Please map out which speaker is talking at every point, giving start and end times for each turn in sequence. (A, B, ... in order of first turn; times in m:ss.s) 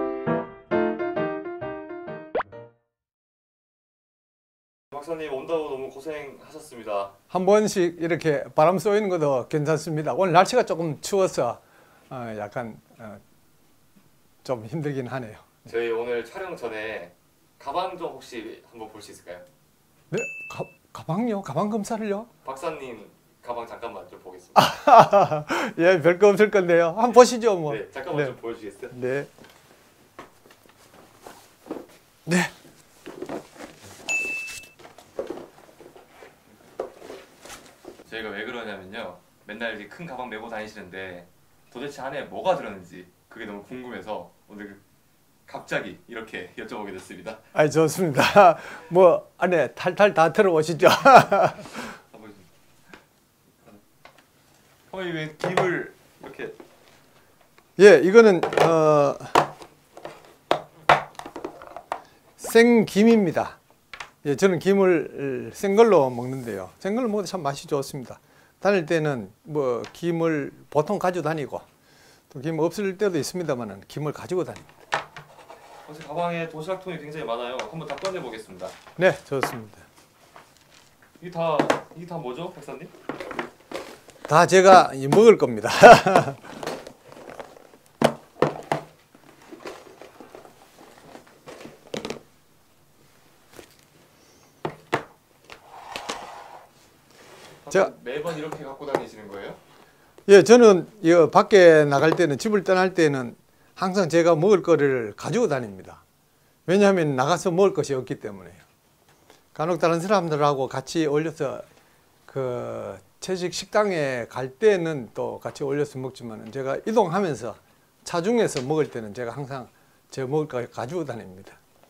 0:04.9-0:07.1 A
0:07.3-0:13.2 B
0:14.4-0:15.6 B
0:15.6-0:19.4 A
0:20.1-0:22.3 B
0:22.4-0:24.8 A
0:24.5-0:28.4 B
0:27.6-0:29.0 A
0:28.9-0:29.3 B
0:32.2-0:32.5 B
0:38.0-0:44.8 A
0:45.5-0:47.4 A
0:47.5-0:51.9 B
0:52.1-0:52.5 A
0:54.9-0:56.6 A
0:57.8-0:59.5 B
1:02.4-1:03.6 B
1:04.2-1:11.6 B
1:12.3-1:14.7 B
1:15.8-1:18.8 A
1:19.0-1:19.8 B
1:21.2-1:22.9 A
1:24.3-1:26.4 B
1:37.6-1:39.6 A
1:40.3-1:46.0 B
1:46.7-1:48.6 B
1:49.5-1:51.6 B
1:52.3-2:01.6 B